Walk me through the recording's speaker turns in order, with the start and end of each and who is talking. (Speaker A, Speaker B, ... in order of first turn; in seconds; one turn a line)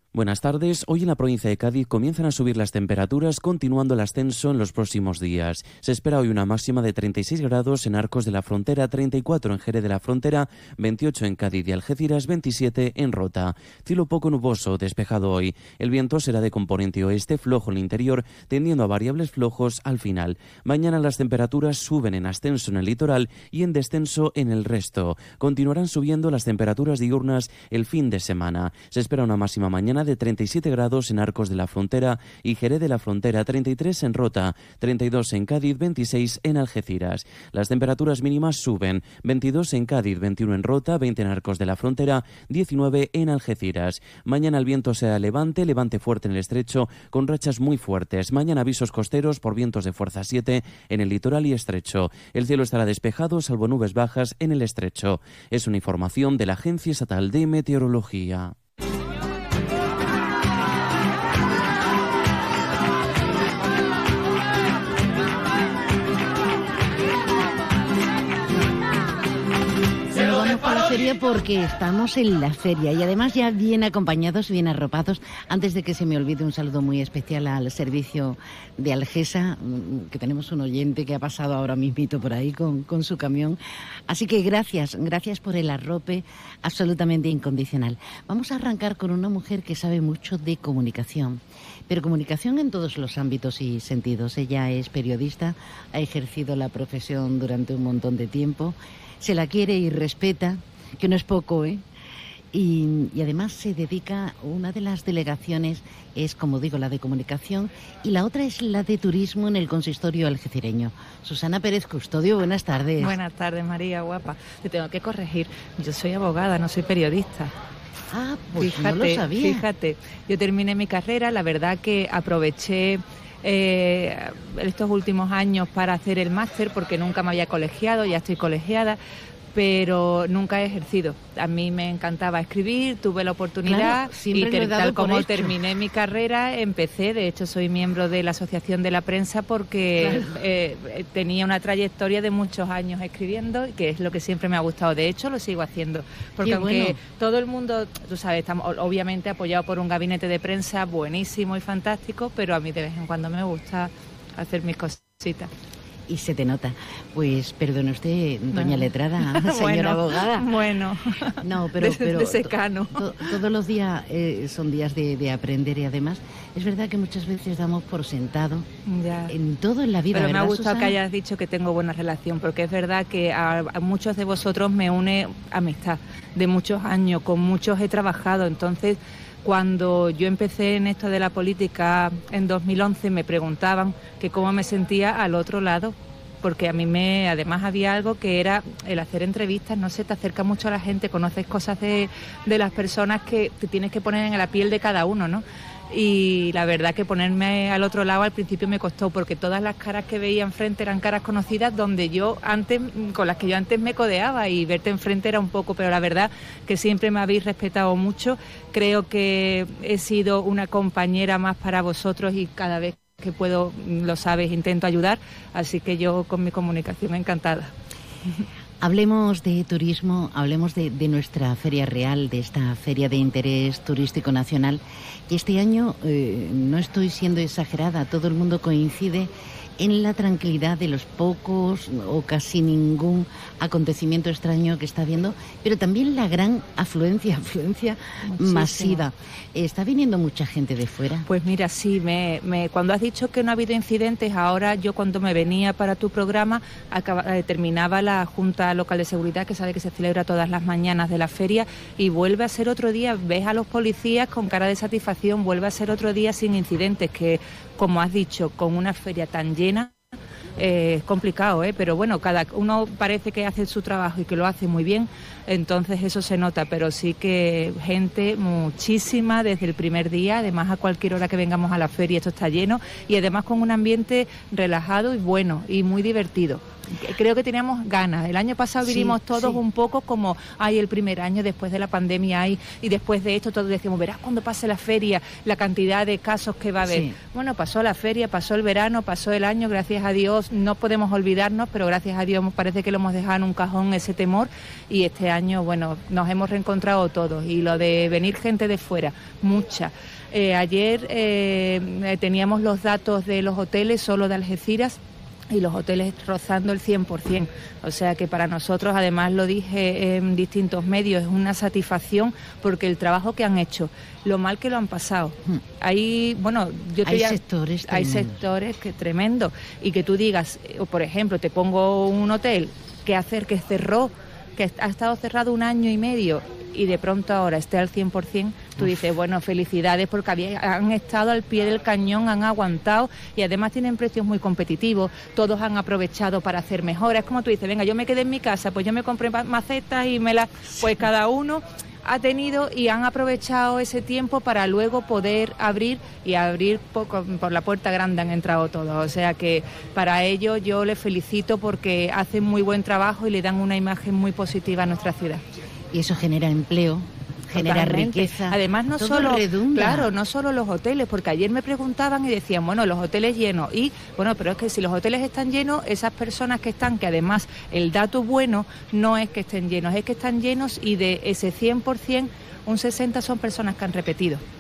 Speaker A: 0.1-58.5
Speaker B: 70.1-101.8
Speaker B: 102.5-113.2
Speaker C: 113.0-117.5
Speaker B: 118.1-119.7
Speaker C: 118.5-129.0
Speaker C: 129.5-155.5
Speaker B: 133.6-135.6
Speaker B: 140.0-140.3
Speaker B: 146.4-147.0
Speaker B: 156.1-160.5
Speaker C: 158.5-163.0
Speaker B: 161.4-168.7
Speaker C: 168.9-169.3
Speaker B: 169.3-171.0
Speaker C: 170.1-217.7
Speaker B: 218.8-241.3
Speaker C: 238.3-239.0
Speaker C: 241.3-259.9
Speaker C: 260.6-305.0
Speaker B: 278.8-279.6
Speaker B: 286.8-287.2
Speaker C: 305.5-355.4
Speaker B: 317.0-318.4
Speaker B: 355.9-360.1
Speaker C: 357.6-374.4